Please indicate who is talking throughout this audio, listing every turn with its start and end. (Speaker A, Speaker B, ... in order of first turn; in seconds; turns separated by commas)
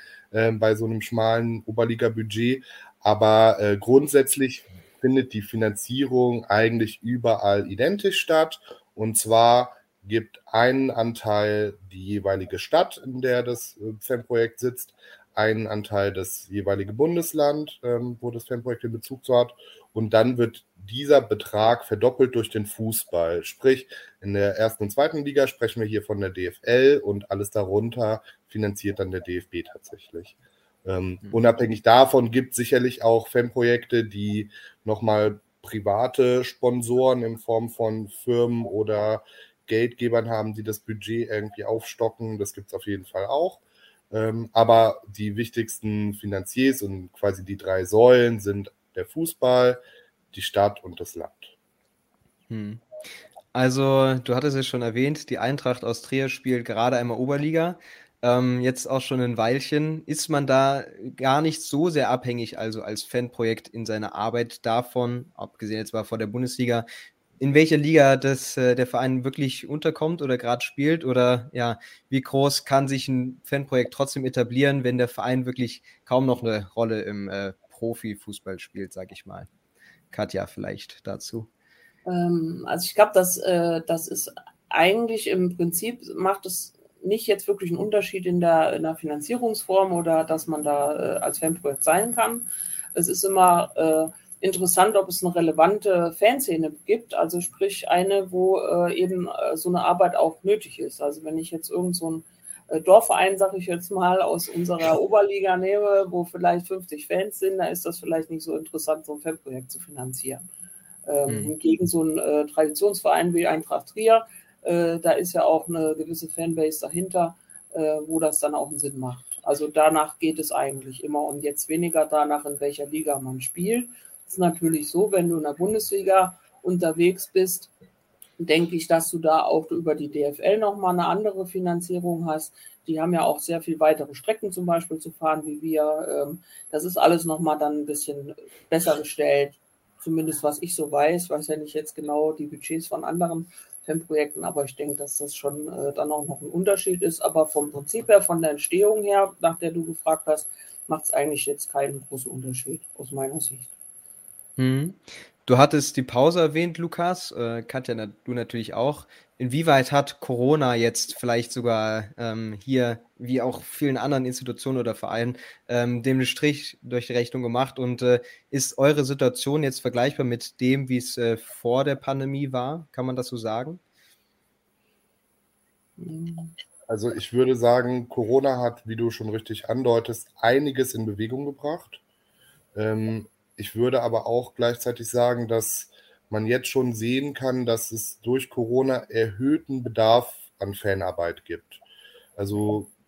Speaker A: 0.3-49.8, Speaker A: 50.3-51.5, Speaker B: 52.5-52.8, Speaker B: 53.5-66.8, Speaker B: 67.4-79.5, Speaker B: 80.1-81.5, Speaker C: 82.0-110.4, Speaker C: 111.0-127.7, Speaker B: 111.3-111.5, Speaker C: 128.4-153.7, Speaker B: 154.6-173.8, Speaker C: 176.0-176.5, Speaker A: 176.9-182.0, Speaker A: 182.7-191.8, Speaker A: 192.4-192.9